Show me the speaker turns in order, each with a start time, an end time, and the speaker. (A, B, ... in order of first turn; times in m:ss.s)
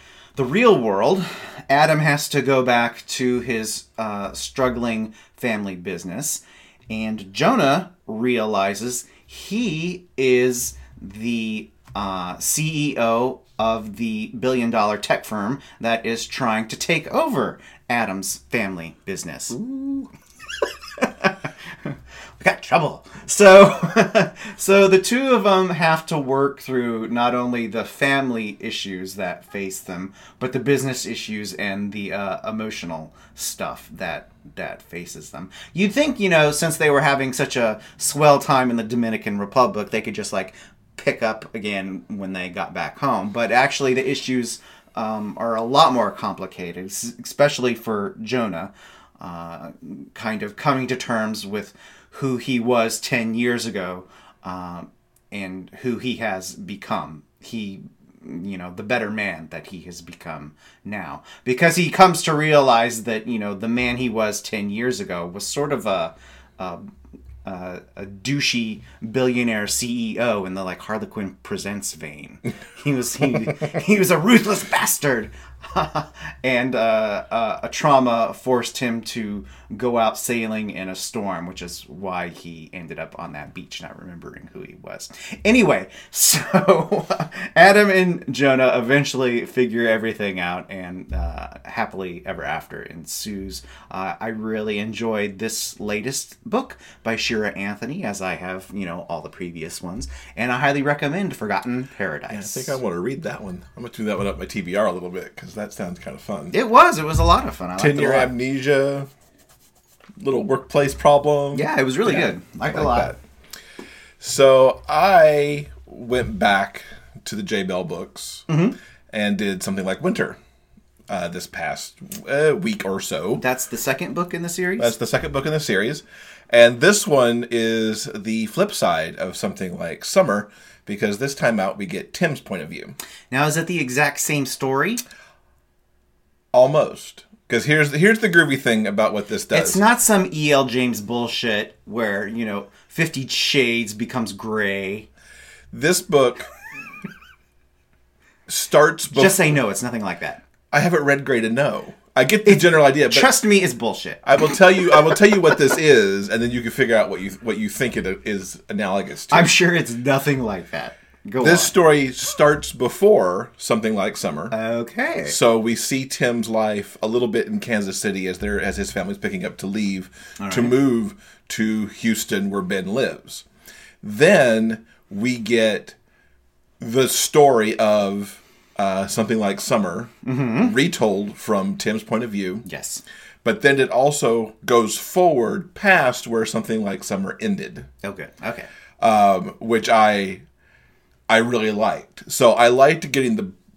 0:00.4-1:06.9 A
1:07.4-1:42.8 A
1:42.3-1:46.5 B
1:46.5-1:48.3 A
1:47.8-1:49.1 B
1:50.2-1:53.2 B
1:51.5-1:53.2 A
1:54.2-1:58.5 B
1:58.5-1:58.8 A
1:59.1-2:00.4 B
2:01.1-2:03.4 B
2:03.4-2:04.9 A
2:04.8-2:13.0 B
2:13.3-2:15.0 A
2:16.5-2:19.8 B
2:19.5-2:25.1 A
2:25.7-2:26.5 B
2:28.5-2:29.4 B
2:29.1-2:30.4 A
2:30.7-2:33.3 B
2:32.4-2:35.2 A
2:34.2-2:39.5 B
2:39.3-2:41.8 A
2:41.4-2:44.5 B
2:44.5-2:45.4 A
2:45.2-2:53.4 B
2:50.4-2:50.8 A
2:54.0-2:56.0 B
2:56.8-3:02.6 B
3:00.2-3:00.8 A
3:02.6-3:03.0 A
3:03.4-3:07.9 B
3:08.0-3:08.7 A
3:09.0-3:10.4 B
3:11.3-3:13.6 B